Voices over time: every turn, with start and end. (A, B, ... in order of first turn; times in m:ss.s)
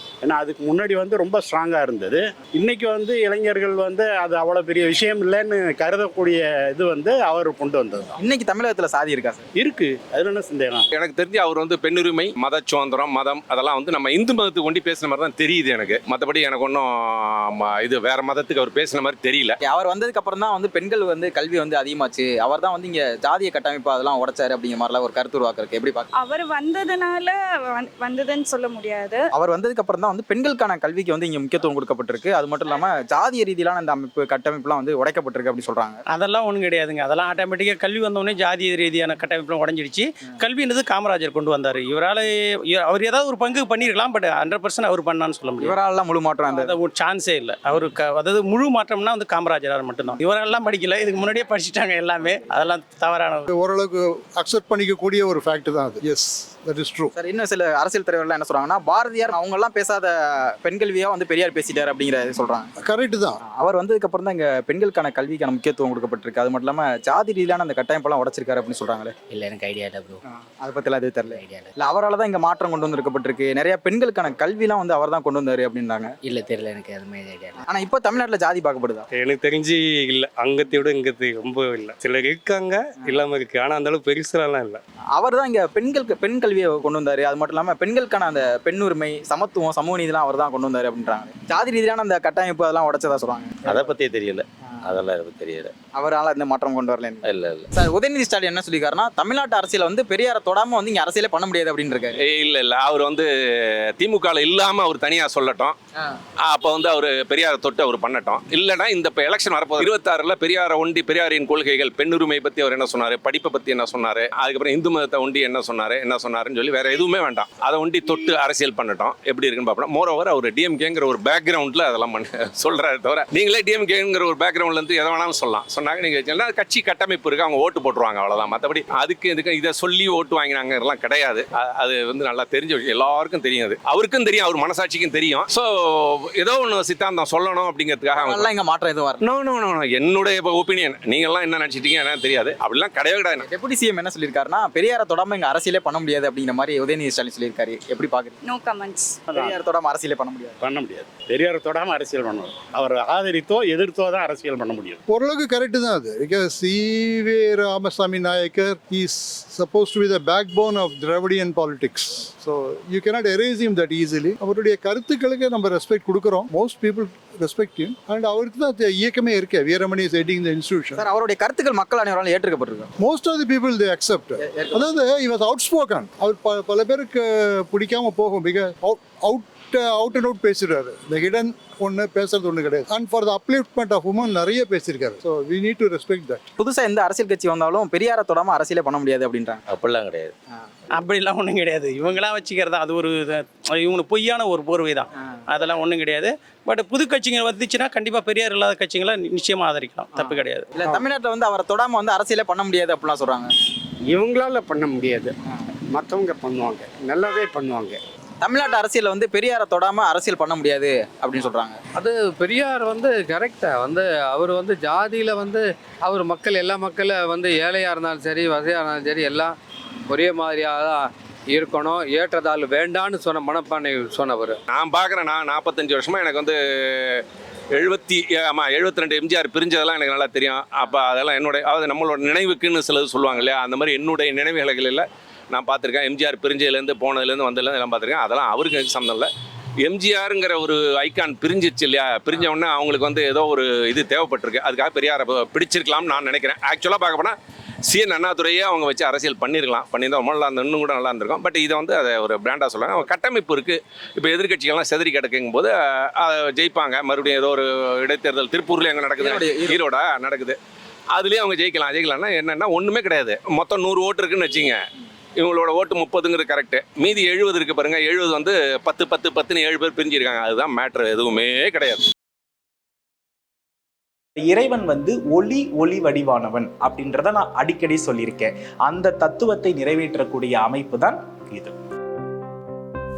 0:00.2-0:08.1 A
0:08.2-0:09.4 B
0:09.6-0:10.8 A
0:10.9-0:19.6 C
0:19.6-0:26.1 B
0:26.2-0:29.2 D
0:29.4-0:36.0 B
0:36.1-0:45.8 E
0:45.6-0:46.8 B
0:46.5-0:53.5 E
0:53.5-0:57.1 F
0:57.2-1:02.7 B
1:02.8-1:03.3 F
1:03.5-1:09.1 B
1:09.3-1:10.2 G
1:10.3-1:16.2 B
1:11.3-1:11.8 G
1:16.2-1:17.6 G
1:17.7-1:19.1 B
1:19.2-1:22.7 H
1:23.3-1:24.7 H
1:25.2-1:33.8 B
1:33.7-1:35.7 G
1:36.0-1:42.2 B
1:37.2-1:37.7 G
1:42.2-1:43.3 C
1:44.0-1:45.8 C
1:46.4-2:18.5 C
2:18.1-2:19.2 B
2:19.2-2:23.4 C
2:23.4-2:28.4 B
2:28.4-2:29.2 D
2:29.3-2:29.6 E
2:29.3-2:30.6 B
2:30.6-2:35.0 E
2:35.1-2:51.0 F
2:51.0-2:52.9 B
2:53.0-3:06.4 F
2:54.4-2:54.8 B
3:06.6-3:09.6 B
3:09.7-3:10.3 G
3:11.0-3:20.7 E
3:20.2-3:23.5 B
3:24.1-3:25.3 A
3:25.9-3:28.0 A
3:28.4-3:31.8 B
3:32.0-3:39.5 I
3:40.1-3:44.6 I
3:44.7-3:59.3 C
3:59.8-4:07.4 C
4:07.9-4:20.6 C
4:19.2-4:19.8 B
4:21.1-4:24.8 C
4:25.4-4:32.0 C
4:34.4-4:41.8 J